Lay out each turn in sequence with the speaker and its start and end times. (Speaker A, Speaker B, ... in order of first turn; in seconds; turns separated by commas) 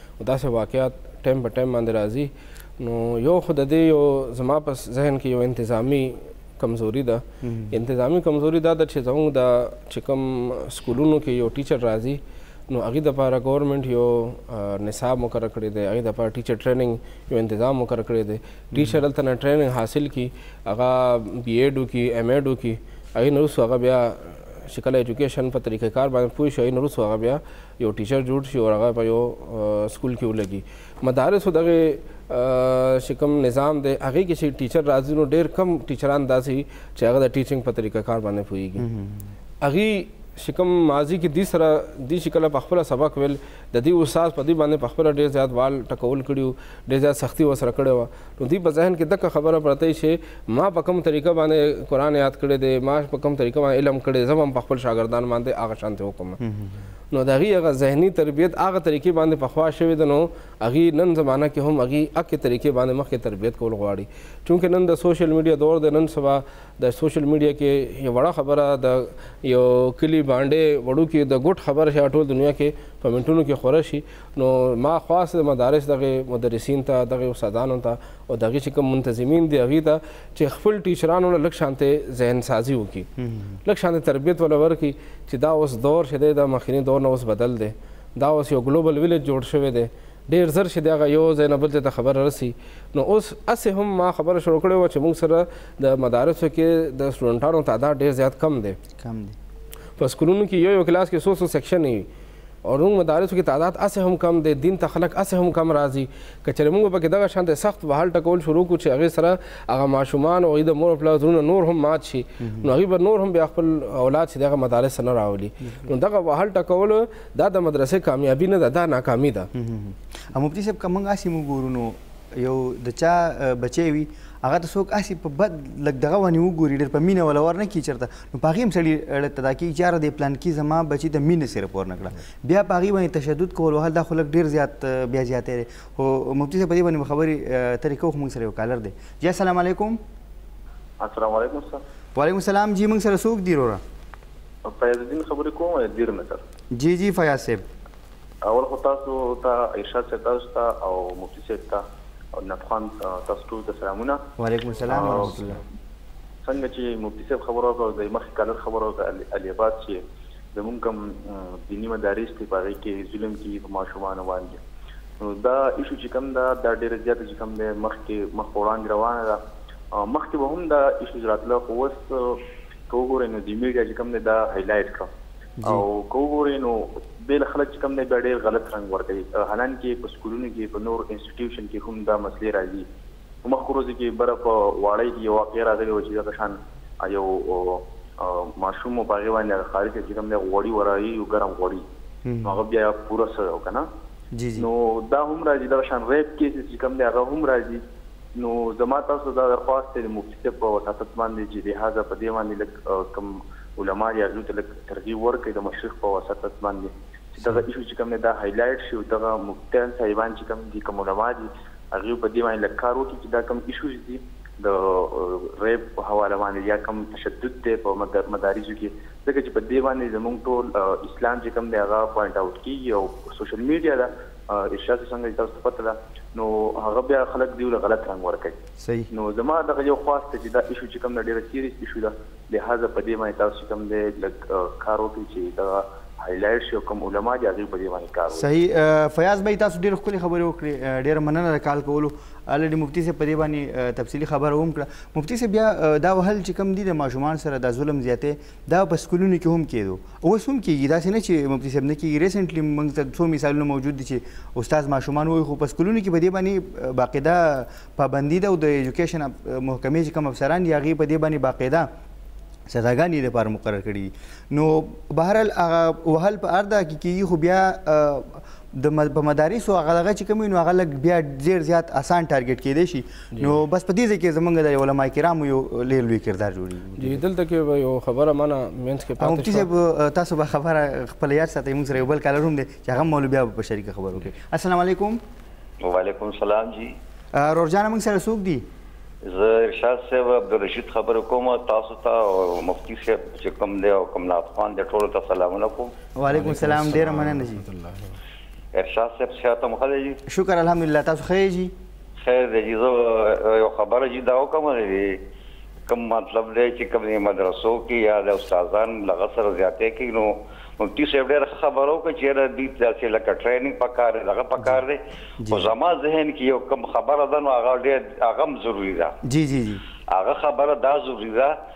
Speaker A: 0.2-38.9, Speaker B: 7.4-7.8, Speaker B: 18.7-19.0, Speaker B: 38.8-39.3, Speaker A: 39.6-56.4, Speaker B: 56.4-56.9, Speaker A: 57.1-83.1, Speaker B: 83.2-83.6, Speaker A: 83.7-98.8, Speaker B: 99.0-99.4, Speaker A: 100.0-102.1, Speaker A: 102.7-119.5, Speaker B: 112.4-112.7, Speaker B: 119.5-140.0, Speaker C: 141.0-141.8, Speaker B: 142.2-143.8, Speaker C: 144.7-146.4, Speaker B: 146.7-147.6, Speaker C: 148.4-151.8, Speaker C: 152.3-154.2, Speaker B: 154.4-155.6, Speaker C: 154.9-155.4, Speaker C: 156.4-160.0, Speaker C: 160.6-164.6, Speaker C: 165.2-169.4, Speaker C: 169.9-175.1, Speaker C: 175.6-182.9, Speaker C: 183.4-191.8, Speaker B: 192.2-192.6, Speaker C: 192.4-193.9, Speaker B: 194.3-194.7, Speaker C: 194.6-197.8, Speaker C: 198.4-228.6, Speaker B: 228.8-229.1, Speaker C: 229.1-238.5, Speaker B: 238.3-261.9, Speaker B: 262.7-277.2, Speaker A: 277.0-279.7, Speaker B: 279.2-285.2, Speaker D: 285.8-286.9, Speaker B: 287.3-288.7, Speaker D: 289.2-295.9, Speaker B: 296.2-297.6, Speaker A: 296.3-298.2, Speaker D: 298.8-300.2, Speaker B: 300.3-301.7, Speaker D: 302.2-305.2, Speaker D: 305.9-319.1, Speaker B: 315.4-315.7, Speaker B: 319.2-319.8, Speaker D: 320.1-321.6